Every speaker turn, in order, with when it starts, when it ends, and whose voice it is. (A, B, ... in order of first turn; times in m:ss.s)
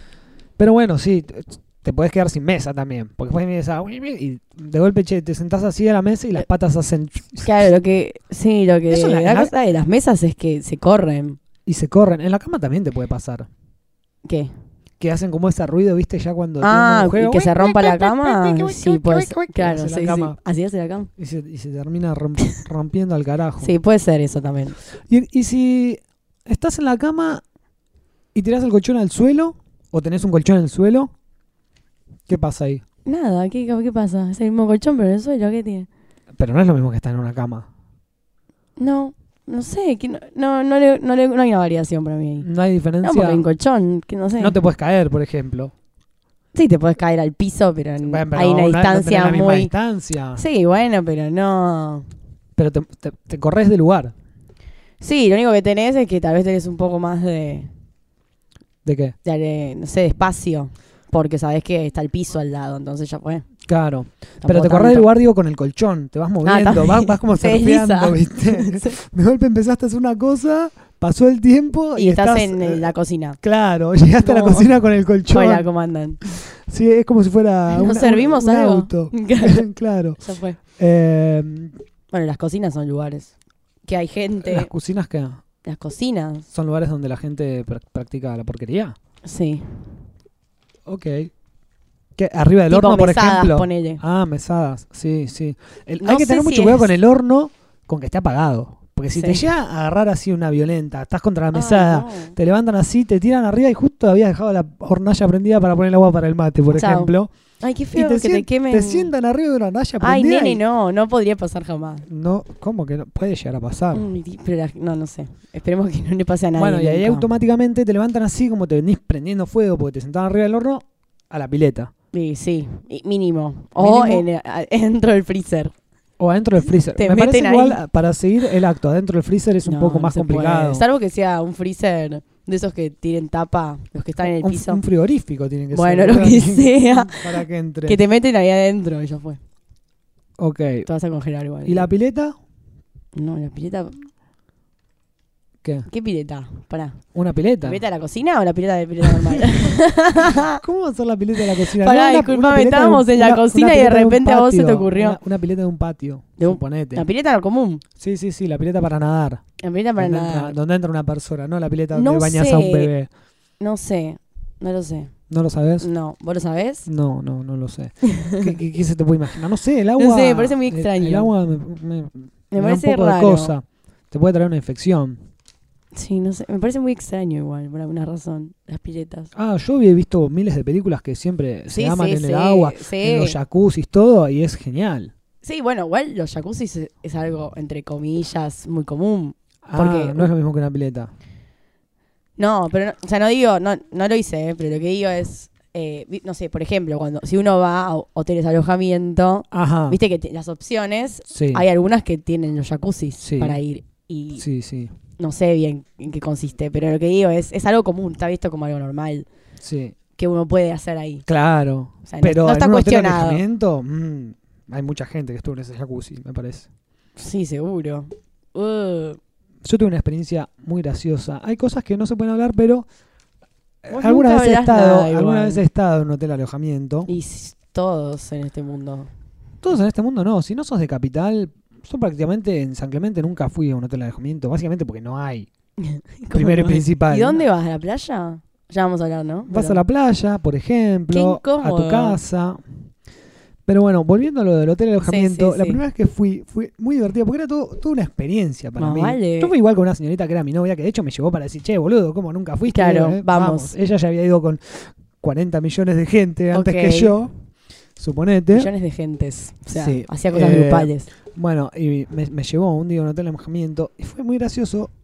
0:00.6-0:07.7 A
0:07.4-0:11.4 B
0:08.9-0:09.5 A
0:11.6-0:13.5 A
0:14.2-0:14.5 B
0:15.0-0:20.4 A
0:16.6-0:21.1 B
0:21.2-0:23.7 A
0:23.6-0:24.8 B
0:25.1-0:27.4 A
0:28.3-0:31.1 A
0:32.3-0:32.8 A
0:33.0-0:35.9 B
0:36.4-0:37.7 A
0:38.8-0:42.5 B
0:42.4-0:43.4 A
0:43.0-0:44.6 B
0:44.4-0:45.7 A
0:46.5-0:49.7 B
0:48.0-0:50.4 A
0:50.4-0:52.1 B
0:52.6-0:54.1 A
0:55.0-0:57.7 B
0:58.8-0:59.1 A
0:59.2-1:03.4 B
1:03.6-1:15.6 A
1:04.4-1:05.1 B
1:06.4-1:09.0 B
1:12.0-1:13.4 B
1:14.2-1:14.7 B
1:15.3-1:16.2 B
1:16.2-1:20.2 A
1:17.7-1:19.6 B
1:20.2-1:20.6 B
1:20.8-1:21.7 A
1:22.1-1:23.3 B
1:23.8-1:24.7 B
1:24.4-1:25.4 A
1:25.6-1:26.4 B
1:26.5-1:29.0 A
1:29.2-1:29.8 B
1:30.9-1:31.3 A
1:32.2-1:47.3 A
1:32.7-1:34.0 B
1:36.0-1:36.9 B
1:39.1-1:39.4 B
1:41.5-1:42.4 B
1:46.7-1:49.1 B
1:47.9-1:50.6 A
1:50.0-1:52.0 B
1:52.1-1:54.0 A
1:53.9-1:57.3 B
1:56.6-2:01.9 A
2:02.1-2:05.7 B
2:03.8-2:04.2 A
2:06.2-2:10.8 A
2:06.9-2:07.8 B
2:09.6-2:14.8 B
2:14.2-2:18.0 A
2:15.7-2:19.4 B
2:20.4-2:20.9 A
2:20.8-2:21.9 B
2:21.6-2:22.3 A
2:23.2-2:24.0 B
2:25.9-2:27.0 B
2:27.1-2:27.8 A
2:27.6-2:30.6 B
2:29.0-2:29.7 A
2:30.4-2:37.0 A
2:31.6-2:35.2 B
2:36.4-2:37.8 B
2:38.0-2:39.4 A
2:39.6-2:40.6 B
2:40.0-2:43.1 A
2:41.9-2:42.9 B
2:43.6-2:45.1 B
2:45.3-2:45.9 A
2:45.8-2:46.9 B
2:46.8-2:55.2 A
2:48.0-2:48.5 B
2:50.0-2:51.3 B
2:52.5-2:53.5 B
2:55.9-2:59.3 B
2:59.3-3:05.1 A
3:01.7-3:03.4 B
3:05.4-3:10.3 B
3:09.6-3:11.1 A
3:12.4-3:24.4 B
3:19.5-3:20.0 A
3:21.3-3:21.6 A
3:23.2-3:23.6 A
3:24.4-3:24.9 A
3:25.2-3:29.3 B
3:29.6-3:30.0 A
3:30.2-3:31.2 B
3:31.3-3:36.7 A
3:32.0-3:33.4 B
3:37.2-3:39.2 B
3:39.6-3:42.8 A
3:43.8-3:47.1 A
3:43.9-3:45.6 B
3:47.1-3:49.1 B
3:49.6-3:55.5 A
3:55.8-3:59.8 B
3:56.3-3:57.4 A
3:59.5-4:02.6 A
4:01.1-4:02.2 B
4:03.7-4:17.3 A
4:05.0-4:05.8 B
4:08.8-4:09.5 B
4:12.7-4:13.7 B
4:16.5-4:17.1 B
4:18.0-4:18.7 A
4:18.5-4:21.1 B
4:19.7-4:24.9 A